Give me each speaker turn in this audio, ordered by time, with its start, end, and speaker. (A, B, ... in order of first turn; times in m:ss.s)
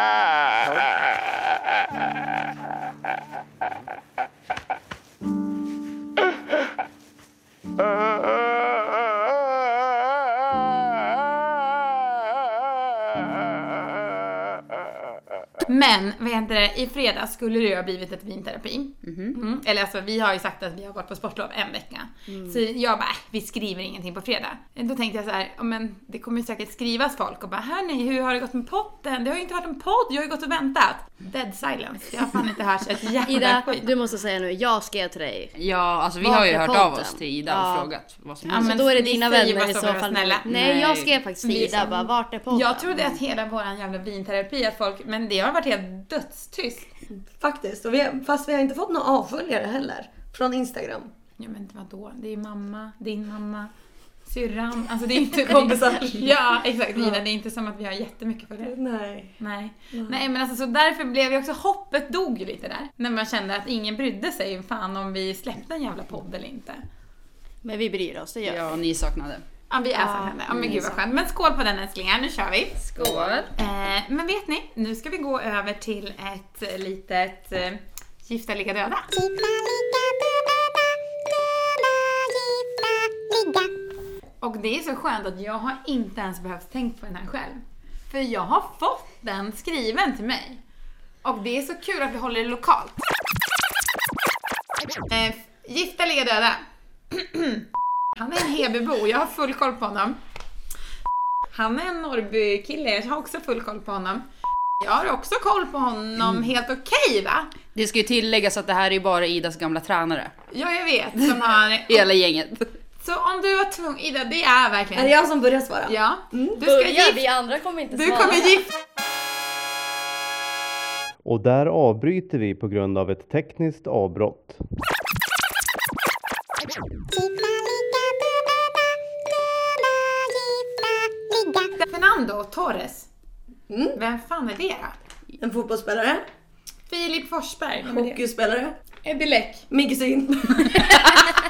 0:15.7-0:33.9 A
0:19.0-0:19.4 B
0:22.3-0:22.6 C
0:33.3-0:35.5 C
0:35.6-0:38.8 B
0:36.2-0:37.9 C
0:38.5-0:40.5 A
0:38.5-0:43.2 C
0:40.5-0:41.1 B
0:41.4-0:46.9 A
0:47.4-0:51.1 D
0:51.4-0:53.7 A
0:54.3-0:58.7 A
0:55.4-0:56.3 D
0:57.0-0:57.2 D
0:58.6-0:59.4 D
0:59.4-1:06.8 A
0:59.9-1:00.2 D
1:07.6-1:08.7 C
1:08.4-1:09.4 B
1:09.7-1:19.2 A
1:10.0-1:11.0 C
1:12.9-1:13.5 B
1:24.4-1:30.6 A
1:31.2-1:33.1 A
1:35.1-1:37.7 A
1:38.2-1:40.2 A
1:41.5-1:44.2 A
1:44.8-1:47.5 A
1:47.7-1:50.3 B
1:50.5-1:52.1 A
1:51.9-1:52.7 B
1:53.0-1:55.1 A
1:55.0-1:56.6 D
1:55.9-1:57.2 A
1:56.6-1:58.6 C
1:57.9-1:58.8 A
2:01.2-2:04.6 E
2:11.8-2:13.1 A
2:13.7-2:14.0 D
2:14.0-2:15.0 A
2:15.4-2:16.2 D
2:16.9-2:18.2 A
2:17.8-2:18.8 D
2:19.0-2:19.7 A
2:19.7-2:21.1 D